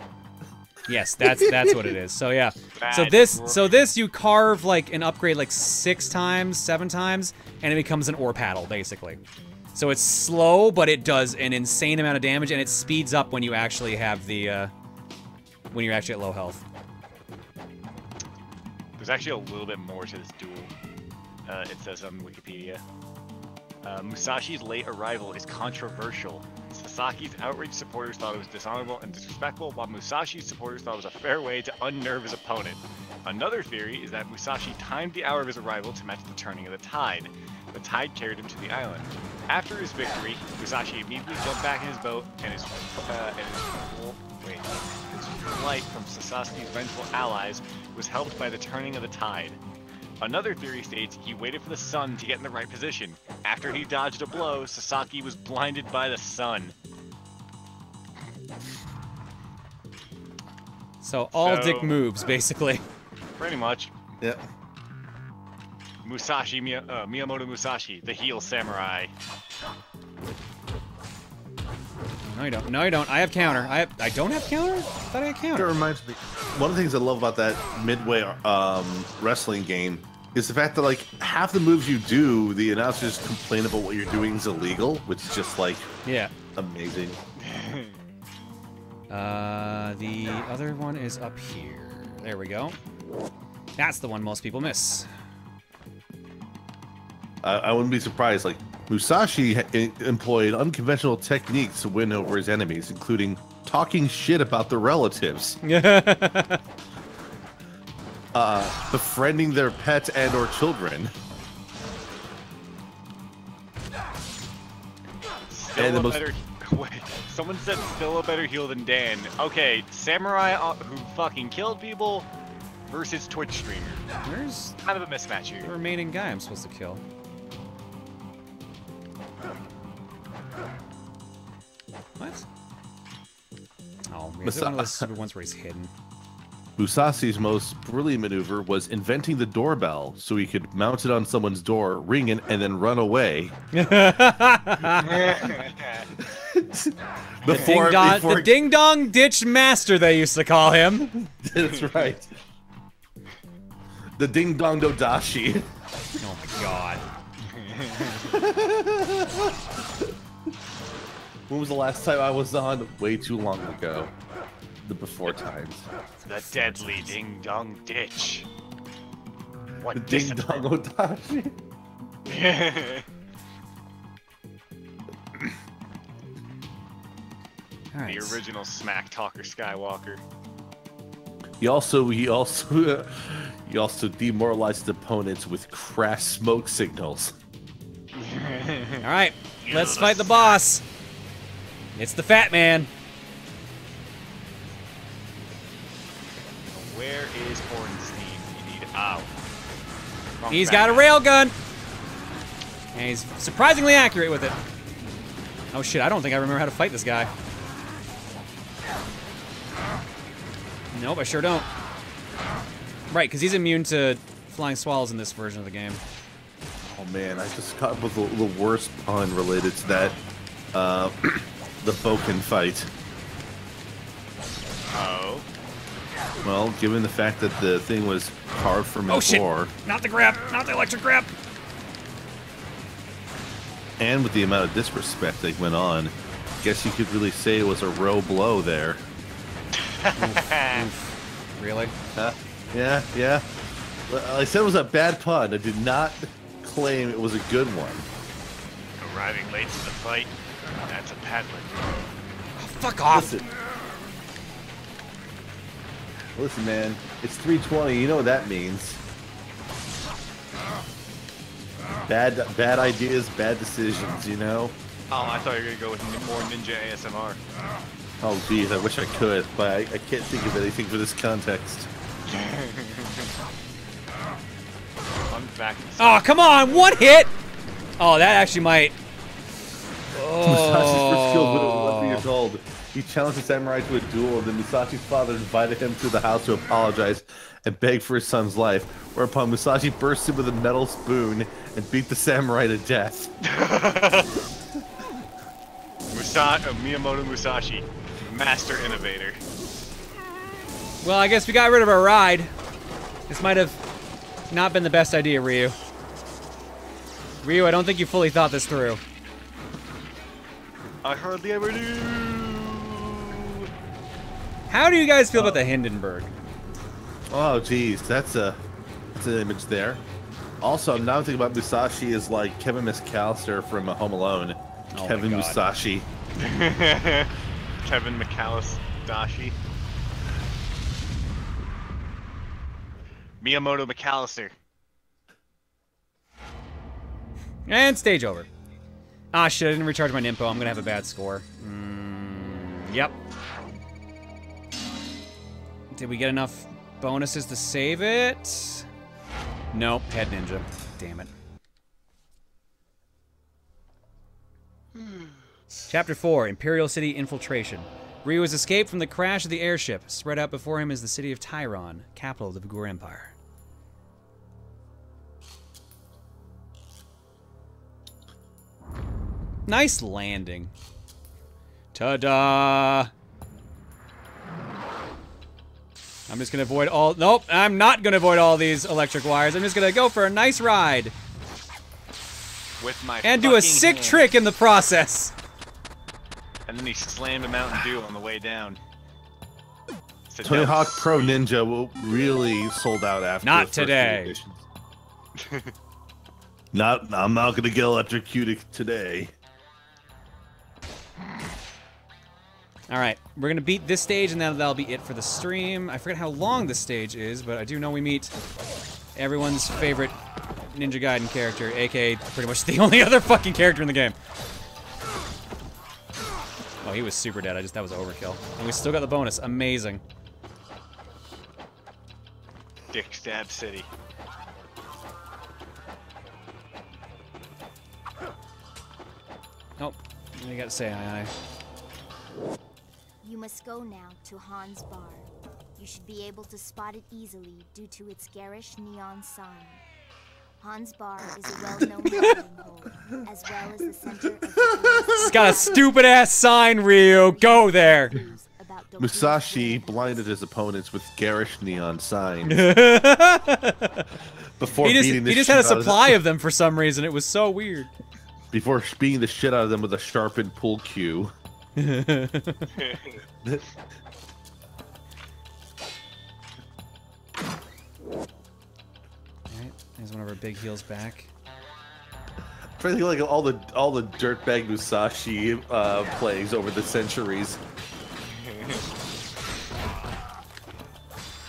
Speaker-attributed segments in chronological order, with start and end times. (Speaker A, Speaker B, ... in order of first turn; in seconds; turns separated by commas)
Speaker A: 0.9-9.2, Speaker B: 1.2-1.9, Speaker C: 2.8-3.7, Speaker A: 9.7-14.7, Speaker A: 15.7-16.6, Speaker C: 19.0-20.7, Speaker C: 21.4-22.8, Speaker C: 23.8-49.6, Speaker C: 50.2-56.7, Speaker A: 61.0-62.8, Speaker C: 61.3-62.1, Speaker C: 63.4-63.9, Speaker C: 66.0-69.1, Speaker A: 72.2-75.7, Speaker B: 75.5-85.9, Speaker A: 86.0-86.3, Speaker B: 86.5-87.2, Speaker C: 87.4-88.0, Speaker A: 89.1-92.8, Speaker A: 93.8-95.1, Speaker B: 97.4-105.6, Speaker A: 105.6-106.6, Speaker B: 108.3-111.1, Speaker C: 115.5-122.3, Speaker B: 115.7-116.2, Speaker C: 122.9-124.0, Speaker A: 124.2-124.8, Speaker C: 124.8-125.7, Speaker A: 125.6-127.0, Speaker A: 132.2-132.4, Speaker A: 134.1-135.9, Speaker B: 134.4-135.1, Speaker B: 136.8-144.2, Speaker A: 143.7-145.3, Speaker C: 145.0-146.1, Speaker B: 146.2-148.6, Speaker A: 147.5-151.1, Speaker B: 151.1-152.3, Speaker B: 154.2-155.7, Speaker A: 156.2-157.0, Speaker C: 157.5-158.3, Speaker B: 158.3-159.6, Speaker B: 161.5-164.1, Speaker B: 164.8-165.9, Speaker C: 166.3-168.5, Speaker A: 166.4-167.1, Speaker C: 169.8-170.7, Speaker B: 169.9-171.6, Speaker C: 172.2-173.1, Speaker A: 177.9-178.4, Speaker C: 178.1-180.2, Speaker B: 181.6-187.3, Speaker C: 188.1-189.0, Speaker A: 189.0-190.8, Speaker C: 189.6-190.6, Speaker A: 191.9-192.9, Speaker C: 196.7-199.3, Speaker C: 200.4-201.1, Speaker A: 200.5-201.5, Speaker A: 202.9-204.6, Speaker A: 205.7-207.3, Speaker A: 210.9-211.7, Speaker A: 213.1-216.0, Speaker B: 216.8-220.2, Speaker B: 220.7-222.9, Speaker C: 224.9-225.4, Speaker B: 226.4-229.7, Speaker A: 229.1-231.3, Speaker B: 234.0-239.0, Speaker C: 239.8-240.8, Speaker A: 240.2-241.9, Speaker B: 242.2-243.4, Speaker B: 244.1-248.1, Speaker C: 249.0-252.1, Speaker A: 252.6-253.4, Speaker B: 253.1-253.4, Speaker B: 256.3-259.0, Speaker B: 262.1-264.8, Speaker C: 265.1-267.4, Speaker B: 268.2-271.9, Speaker C: 272.3-273.3, Speaker C: 275.3-276.2, Speaker A: 276.0-277.3, Speaker A: 278.0-278.9, Speaker A: 280.1-282.2, Speaker B: 280.4-293.3, Speaker C: 293.4-294.4, Speaker C: 296.1-299.4, Speaker A: 301.0-302.5, Speaker A: 303.3-303.8, Speaker A: 304.5-305.8, Speaker A: 307.4-309.0, Speaker C: 311.0-313.7, Speaker A: 314.7-316.3, Speaker B: 315.3-315.6, Speaker B: 317.3-318.6, Speaker B: 319.1-320.0, Speaker B: 320.6-326.1, Speaker A: 324.9-325.6, Speaker C: 326.4-327.3, Speaker C: 327.8-329.6, Speaker C: 333.4-334.5, Speaker A: 337.7-338.5, Speaker A: 339.3-343.1, Speaker A: 345.9-348.9, Speaker A: 349.7-351.3, Speaker A: 355.9-363.3, Speaker A: 369.7-370.7, Speaker A: 371.9-373.1, Speaker A: 376.3-381.1, Speaker C: 382.8-384.3, Speaker A: 383.2-385.3, Speaker C: 386.7-388.8, Speaker C: 390.3-391.4, Speaker B: 390.4-394.6, Speaker A: 393.4-394.4, Speaker C: 395.4-395.7, Speaker B: 396.7-399.3, Speaker A: 402.9-408.3, Speaker A: 409.1-414.1, Speaker A: 416.8-420.0, Speaker C: 422.9-423.9, Speaker A: 429.8-431.3, Speaker D: 433.2-439.8, Speaker D: 440.6-446.1, Speaker B: 444.5-445.8, Speaker A: 445.2-448.1, Speaker D: 447.0-450.3, Speaker B: 449.0-452.7, Speaker A: 452.4-454.1, Speaker B: 454.6-456.2, Speaker A: 454.8-457.9, Speaker B: 458.5-461.3, Speaker A: 461.8-462.8, Speaker C: 462.8-463.1, Speaker A: 469.5-471.3, Speaker B: 472.8-477.6, Speaker C: 478.3-478.8